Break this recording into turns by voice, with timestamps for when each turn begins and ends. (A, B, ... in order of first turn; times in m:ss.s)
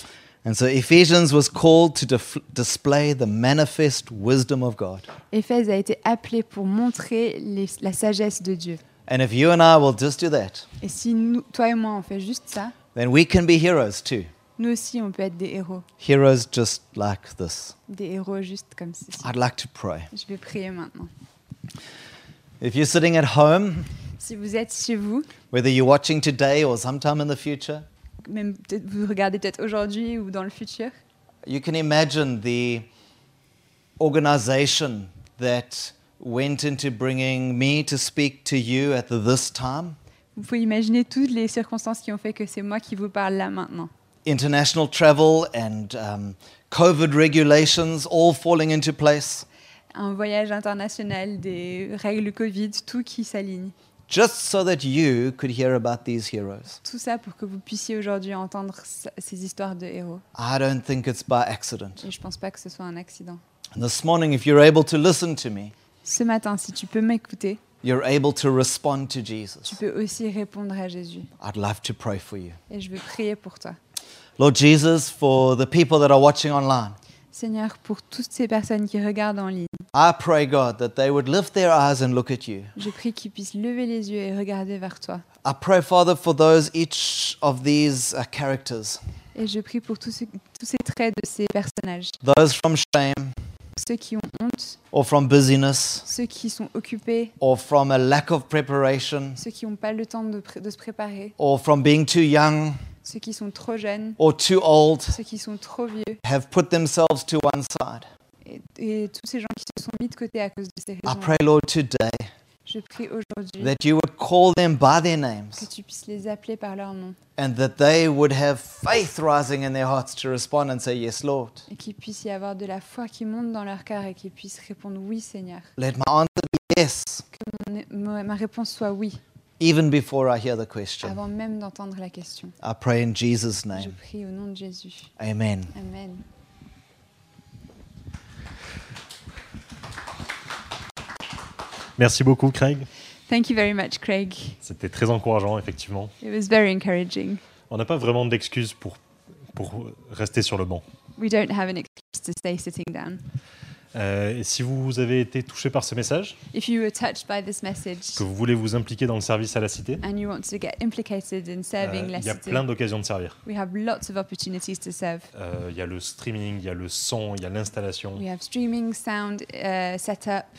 0:00.4-0:05.1 A
0:05.3-0:08.8 B
0:09.1-0:10.7 A
0:10.8-0:12.8 B
0:13.0-0:14.3 A
0:14.6-0:15.9 B
0:16.0-0:17.8 A
0:17.9-0:19.3 B
0:19.2-0:20.1 A
0:20.1-0:21.1 B
0:22.6-0:23.9 A
0:24.2-0:25.3 B
0:25.5-0:27.9 A
0:28.2-0:30.9 B
0:31.4-0:32.9 A
0:34.0-0:40.0 A
0:40.4-0:43.9 B
0:44.2-0:49.5 A
0:49.9-0:53.7 B
0:54.1-0:56.8 A
0:56.8-1:00.2 B
1:00.4-1:02.1 A
1:02.0-1:03.4 B
1:03.8-1:05.7 A
1:06.0-1:07.6 B
1:07.8-1:09.8 A
1:09.6-1:11.3 B
1:11.4-1:12.6 A
1:12.7-1:13.8 B
1:14.4-1:17.0 A
1:17.3-1:19.8 B
1:19.9-1:22.7 A
1:22.8-1:25.2 B
1:25.4-1:29.0 A
1:29.4-1:32.2 B
1:32.2-1:33.4 A
1:33.8-1:34.8 B
1:34.9-1:36.1 A
1:36.1-1:37.3 B
1:37.4-1:39.4 A
1:39.4-1:41.4 B
1:41.4-1:42.8 A
1:43.0-1:44.2 B
1:44.2-1:45.2 A
1:45.1-1:46.2 B
1:46.2-1:48.1 A
1:48.4-1:51.4 B
1:51.1-1:52.3 A
1:52.7-1:53.8 B
1:53.6-1:55.7 A
1:55.6-1:57.2 B
1:57.4-2:01.7 A
2:01.7-2:05.7 B
2:05.8-2:07.2 A
2:07.3-2:09.2 B
2:09.6-2:11.2 A
2:11.0-2:12.6 B
2:12.6-2:14.0 A
2:13.7-2:15.1 B
2:15.2-2:15.7 A
2:15.7-2:16.2 B
2:22.0-2:22.9 C
2:23.3-2:24.6 B
2:24.6-2:26.1 C
2:26.2-2:27.4 B
2:27.7-2:29.0 C
2:29.5-2:30.8 C
2:31.2-2:33.2 B
2:33.9-2:36.4 C
2:36.5-2:38.2 B
2:38.2-2:40.0 C
2:40.0-2:42.6 B
2:41.8-2:43.4 C
2:43.4-2:45.3 B
2:45.4-2:48.2 C
2:48.2-2:50.5 B